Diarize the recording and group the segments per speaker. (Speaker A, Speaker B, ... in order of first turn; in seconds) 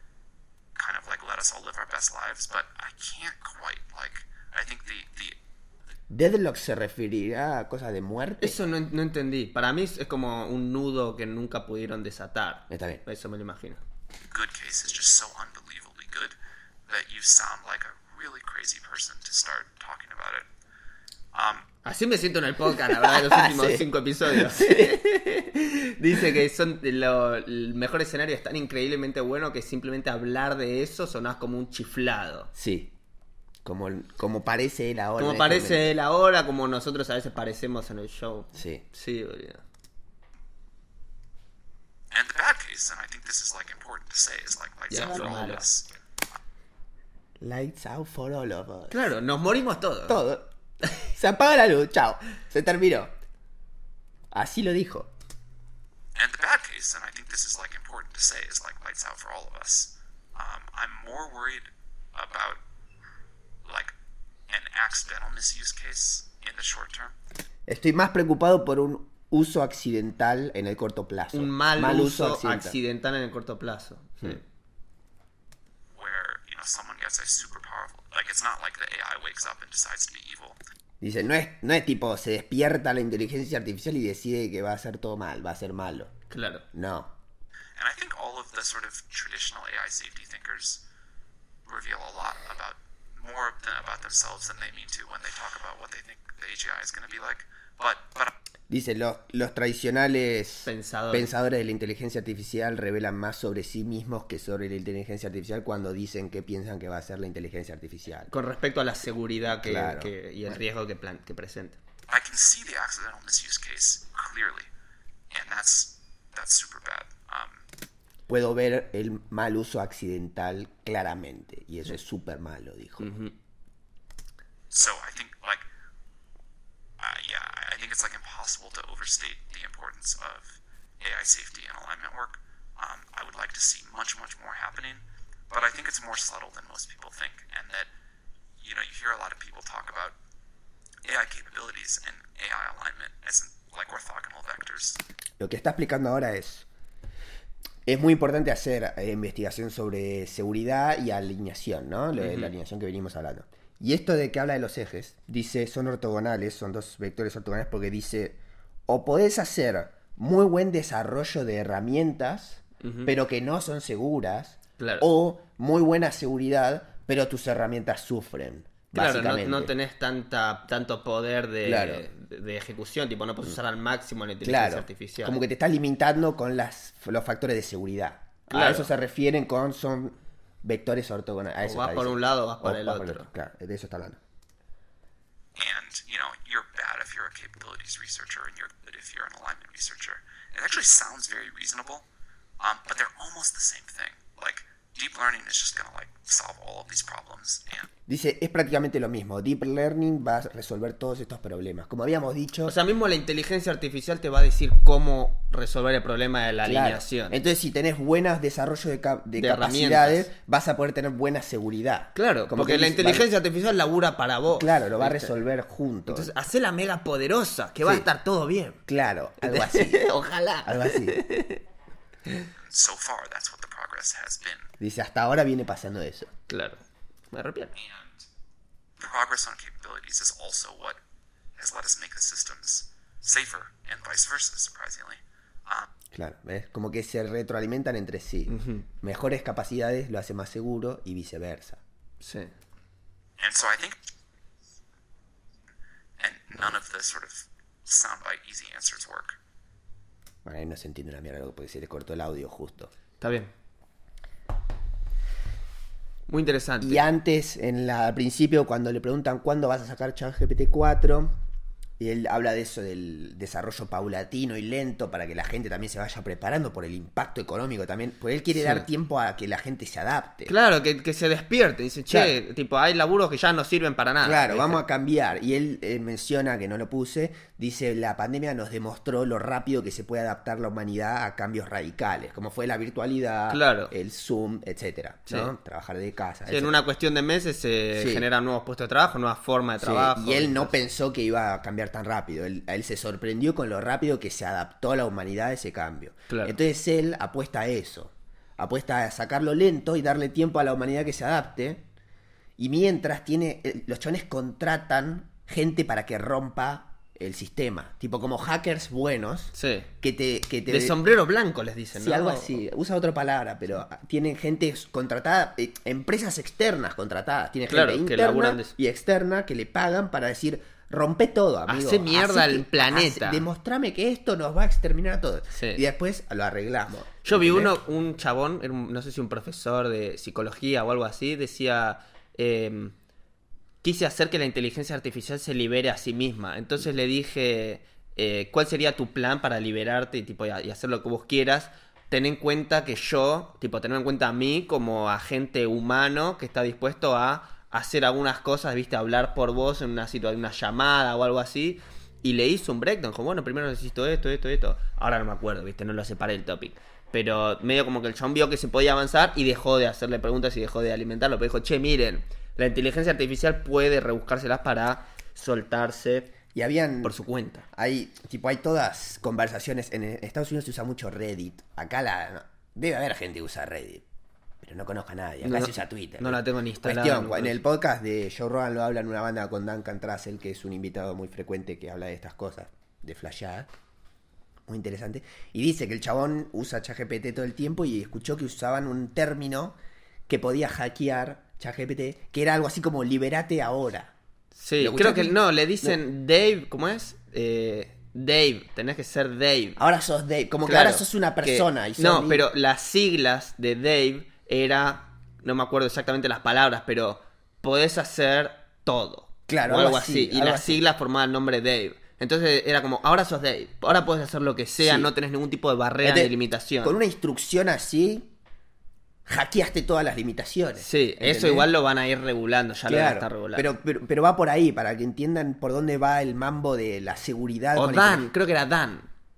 Speaker A: 0.7-5.4, 14.3-16.3, 16.9-20.5, 21.3-21.6, 42.1-45.9, 56.1-62.6, 63.6-63.9, 64.5-67.1, 75.9-80.6, 87.8-90.8, 91.6-98.3, 112.1-114.7, 115.3-117.6, 124.7-125.6, 127.0-137.9, 138.6-140.2, 141.0-145.0, 185.6-192.1, 192.6-197.9, 222.6-224.7, 227.7-228.3, 229.0-231.0, 231.6-235.9, 243.4-244.0, 246.2-249.4
Speaker B: 6.1-8.6, 12.7-13.0, 22.6-25.1, 32.5-32.9, 33.6-35.9, 38.5-38.8, 47.4-49.1, 50.1-53.1, 54.3-55.1, 67.7-72.8, 81.0-86.1, 86.7-87.1, 98.7-108.3, 109.5-110.6, 118.3-123.1, 145.4-146.7, 147.8-169.7, 171.6-172.1, 174.4-184.2, 198.1-202.7, 206.6-213.3, 214.5-216.3, 217.8-218.1, 218.8-220.0, 220.6-221.2, 224.8-226.3, 236.1-241.8, 250.4-252.9, 256.8-261.4, 262.0-270.5, 274.2-286.8, 287.9-288.2, 289.8-301.8, 302.6-311.0, 311.9-327.7, 366.5-367.1, 367.7-374.0, 374.6-383.7, 384.7-389.8, 390.3-394.1, 394.8-395.9, 399.8-402.4, 409.5-410.8, 414.8-415.1, 416.0-418.3, 419.2-421.7, 422.8-428.3
Speaker C: 8.4-13.8, 21.8-32.5, 35.2-39.6, 44.9-45.6, 48.9-50.2, 71.3-74.4, 86.3-86.6, 100.7-101.3, 108.3-111.8, 123.0-123.3, 152.2-152.5, 162.8-163.1, 164.8-165.1, 168.9-175.4, 178.5-178.9, 181.6-183.3, 202.6-207.3, 209.4-210.3, 212.1-215.3, 216.1-218.8, 219.4-221.6, 226.5-227.7, 238.5-238.8, 242.2-242.5, 253.2-253.5, 256.3-257.0, 268.5-268.9, 270.5-274.8, 283.5-283.9, 286.5-290.7, 296.3-296.6, 309.5-309.9, 310.7-312.6, 317.7-318.7, 321.7-323.4, 325.5-325.8, 327.2-332.9, 333.8-366.3, 367.0-367.6, 375.4-377.6, 394.6-399.8, 400.6-417.0, 420.8-423.6, 427.7-429.1